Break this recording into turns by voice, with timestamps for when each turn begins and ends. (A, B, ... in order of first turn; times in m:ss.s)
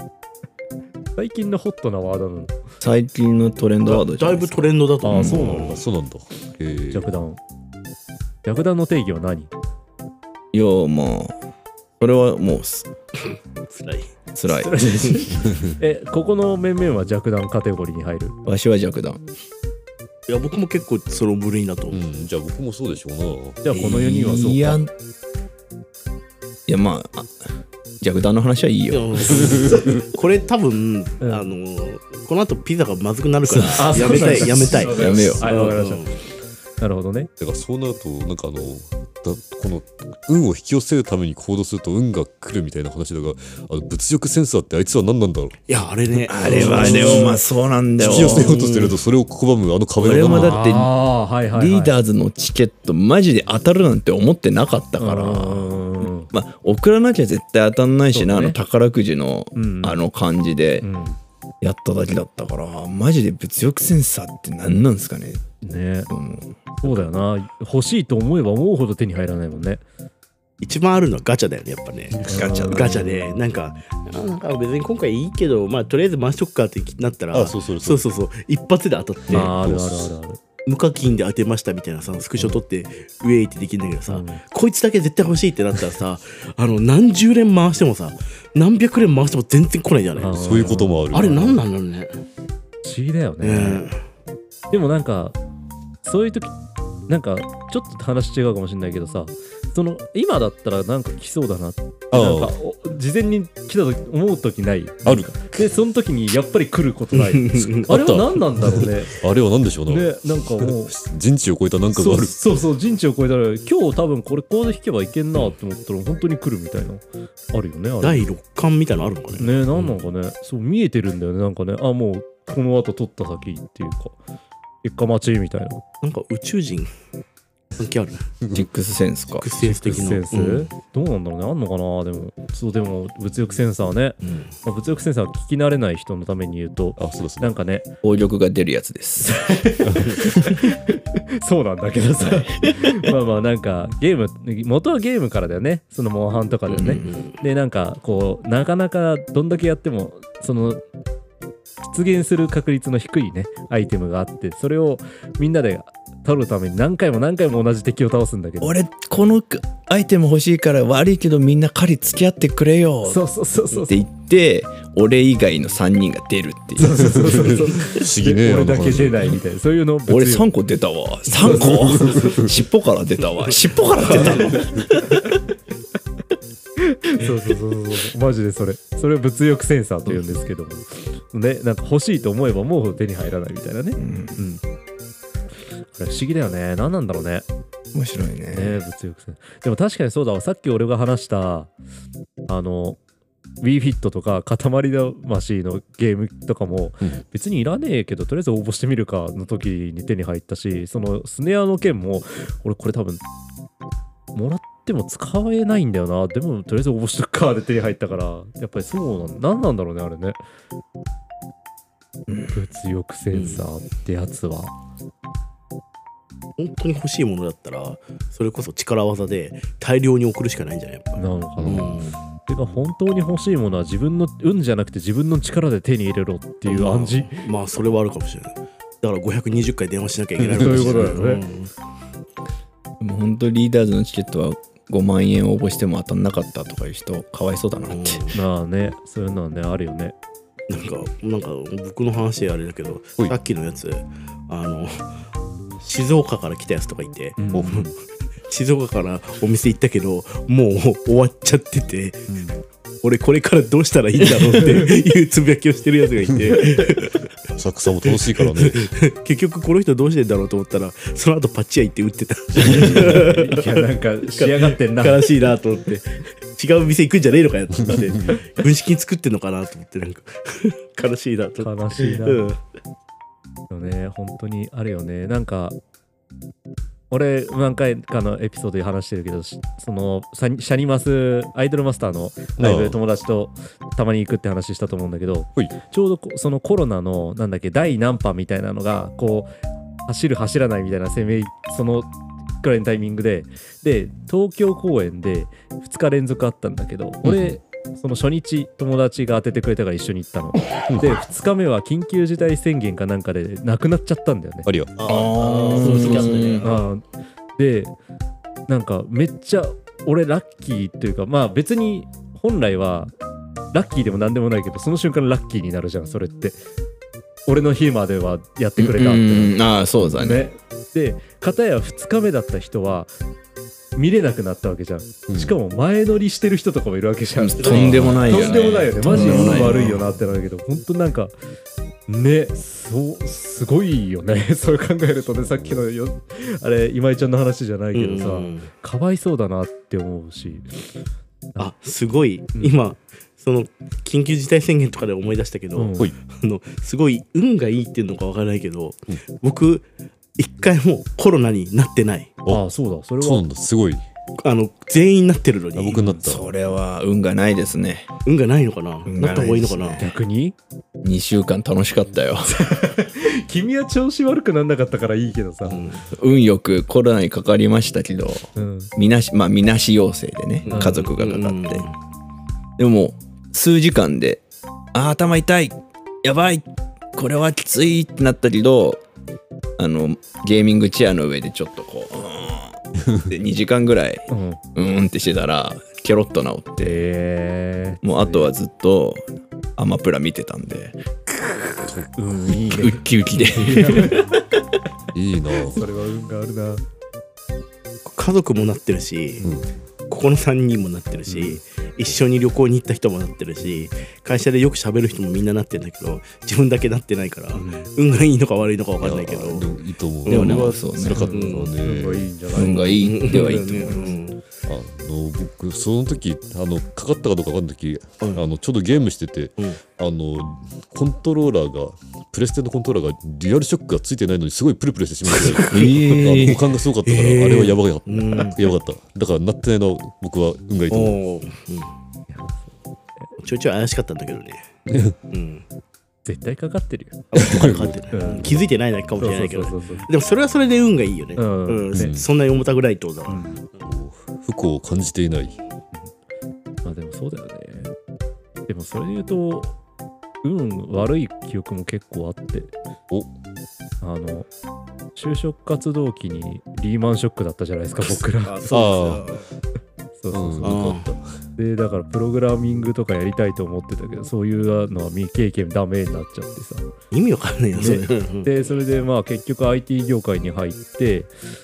0:01.2-0:02.5 A
0:02.8-0:05.6 B
0:03.8-0:05.8 C
0:05.0-0:05.8 A
0:05.4-0:07.1 D
0:06.9-0:07.4 A
0:08.4-0:09.5 A
0:10.5-0:11.3 B
0:12.0-0:12.9 B
0:13.3-0:14.1 C
0:14.3-0:15.3 B
0:14.6-0:18.4 A
0:15.4-0:15.7 D
0:18.4-0:19.2 B
0:20.3-0:22.3 C
0:21.9-0:23.6 D
0:23.6-0:24.8 A
0:23.7-0:24.9 B
0:26.7-0:27.4 B
0:28.0-0:29.6 B
0:28.9-0:36.2 C
0:29.3-0:30.0 D
0:33.4-0:35.5 B
0:33.7-0:36.2 A
0:36.8-0:37.3 A
0:37.4-0:45.6 D
0:45.7-0:47.4 C
0:46.3-0:48.6 B
0:46.4-0:47.4 A
0:46.4-0:47.2 D
0:48.0-0:49.0 C
0:48.0-0:50.6 D
0:50.0-0:50.5 C
0:50.1-0:50.9 B
0:50.2-0:51.9 A
0:51.5-1:00.9 B
0:55.0-0:56.3 A
0:58.1-0:58.6 A
0:59.6-1:00.0 A
1:00.8-1:01.2 A
1:01.6-1:05.4 B
1:05.6-1:06.1 A
1:06.1-1:07.0 B
1:06.8-1:09.8 A
1:10.6-1:19.5 C
1:12.1-1:12.5 D
1:12.3-1:13.2 B
1:12.3-1:13.3 A
1:17.3-1:18.0 D
1:19.3-1:20.1 D
1:19.3-1:20.4 A
1:20.6-1:32.2 C
1:24.1-1:24.4 A
1:30.2-1:31.6 A
1:30.4-1:31.6 D
1:32.8-1:33.8 A
1:33.4-1:34.0 C
1:34.7-1:35.4 A
1:36.0-1:36.6 A
1:37.1-1:49.2 A
1:42.1-1:42.5 D
1:45.0-1:45.4 D
1:47.1-1:47.9 C
1:47.8-1:52.4 D
1:49.9-1:51.0 A
1:51.9-1:58.3 A
1:58.0-1:59.5 C
1:59.4-2:04.1 A
2:04.8-2:05.8 A
2:06.0-2:06.9 C
2:07.8-2:08.3 C
2:08.4-2:08.6 D
2:08.5-2:09.5 B
2:09.3-2:10.7 C
2:09.7-2:10.1 D
2:09.8-2:17.9 A
2:14.2-2:14.5 C
2:17.0-2:17.5 D
2:18.0-2:19.4 B
2:19.2-2:30.8 A
2:22.5-2:22.9 B
2:26.7-2:27.4 C
2:31.8-2:38.8 A
2:38.6-2:47.7 B
2:43.0-2:44.0 A
2:46.8-2:50.5 A
2:47.1-2:49.4 D
2:50.1-2:55.4 B
2:51.4-2:51.7 A
2:51.5-2:52.5 D
2:54.1-2:54.5 A
2:54.1-2:54.6 C
2:56.8-3:04.6 A
3:04.0-3:04.4 B
3:05.9-3:07.4 A
3:07.9-3:08.8 B
3:08.5-3:11.7 A
3:12.5-3:13.0 A
3:13.6-3:23.2 A
3:24.3-3:30.4 A
3:32.4-3:34.7 A
3:33.3-3:33.6 C
3:36.6-3:42.2 C
3:41.2-3:47.3 A
3:41.6-3:42.0 D
3:46.7-3:51.7 C
3:50.4-3:50.9 D
3:50.5-3:51.4 A
3:53.0-3:58.2 B
3:57.8-3:58.4 C
3:58.3-4:00.1 A
4:00.7-4:05.1 C
4:05.8-4:07.9 C
4:07.4-4:07.9 A
4:07.5-4:07.9 D
4:08.5-4:12.4 C
4:12.3-4:12.6 A
4:13.0-4:17.3 C
4:14.5-4:15.0 A
4:17.5-4:18.9 D
4:18.0-4:32.6 C
4:22.6-4:25.3 A
4:27.8-4:28.3 D
4:31.6-4:32.5 A
4:33.7-4:35.8 A
4:37.1-4:49.5 A
4:42.6-4:43.0 D
4:50.0-5:04.7 A
4:57.2-4:57.6 D
5:00.9-5:01.2 D
5:04.6-5:04.9 D
5:05.0-5:06.8 C
5:05.0-5:06.7 B
5:06.6-5:07.0 A
5:07.6-5:07.9 A
5:08.7-5:13.1 A
5:13.7-5:16.6 A
5:17.5-5:23.1 A
5:18.8-5:20.5 B
5:24.0-5:31.3 A
5:25.3-5:25.6 D
5:27.4-5:30.0 B
5:27.6-5:28.4 C
5:27.6-5:28.5 D
5:29.1-5:30.0 C
5:32.1-5:40.8 A
5:35.3-5:35.8 D
5:37.9-5:38.7 C
5:41.6-5:49.8 C
5:42.5-5:42.8 A
5:45.7-5:46.1 A
5:50.4-5:52.3 C
5:52.5-5:53.4 A
5:53.2-5:54.0 D
5:54.4-5:56.0 C
5:55.8-5:56.4 D
5:55.9-5:56.3 A
5:56.2-5:58.1 B
5:58.2-6:00.1 C
5:59.0-6:00.0 B
6:00.0-6:00.6 A
6:01.0-6:02.5 B
6:02.4-6:05.8 A
6:05.6-6:06.1 C
6:06.1-6:11.8 B
6:08.5-6:08.9 A
6:10.6-6:11.9 C
6:10.7-6:11.0 A
6:12.8-6:14.4 B
6:14.9-6:19.0 B
6:19.8-6:27.0 B
6:24.3-6:24.6 A
6:26.8-6:28.5 A
6:28.0-6:31.0 B
6:32.2-6:34.3 A
6:32.7-6:34.4 B
6:35.1-6:35.8 D
6:35.7-6:36.8 A
6:38.0-6:39.4 C
6:39.4-6:39.7 D
6:40.1-6:49.7 C
6:47.5-6:47.9 A
6:49.0-6:52.3 D
6:50.2-6:50.8 C
6:50.3-6:51.3 B
6:51.1-6:54.2 A
6:51.3-6:51.7 C
6:52.5-6:54.0 B
6:52.9-6:54.4 C
6:54.6-7:11.2 D
7:05.3-7:06.0 C
7:05.7-7:06.6 B
7:07.0-7:08.6 C
7:10.9-7:11.9 C
7:12.3-7:12.7 A
7:13.4-7:14.7 C
7:14.9-7:15.1 D
7:15.3-7:15.6 C
7:16.2-7:17.2 A
7:17.3-7:23.4 C
7:17.3-7:18.6 D
7:18.1-7:18.6 A
7:19.2-7:20.1 A
7:21.4-7:22.1 A
7:21.9-7:22.3 D
7:23.3-7:23.6 A
7:23.8-7:25.6 D
7:26.8-7:27.9 A
7:28.7-7:29.8 A
7:30.4-7:32.7 A
7:34.0-7:34.5 A
7:35.1-7:38.7 A
7:38.5-7:39.4 C
7:38.7-7:39.3 D
7:40.2-7:40.8 A
7:40.3-7:41.2 D
7:40.6-7:41.1 C
7:41.6-7:46.9 A
7:47.1-7:48.6 C
7:47.8-7:51.3 A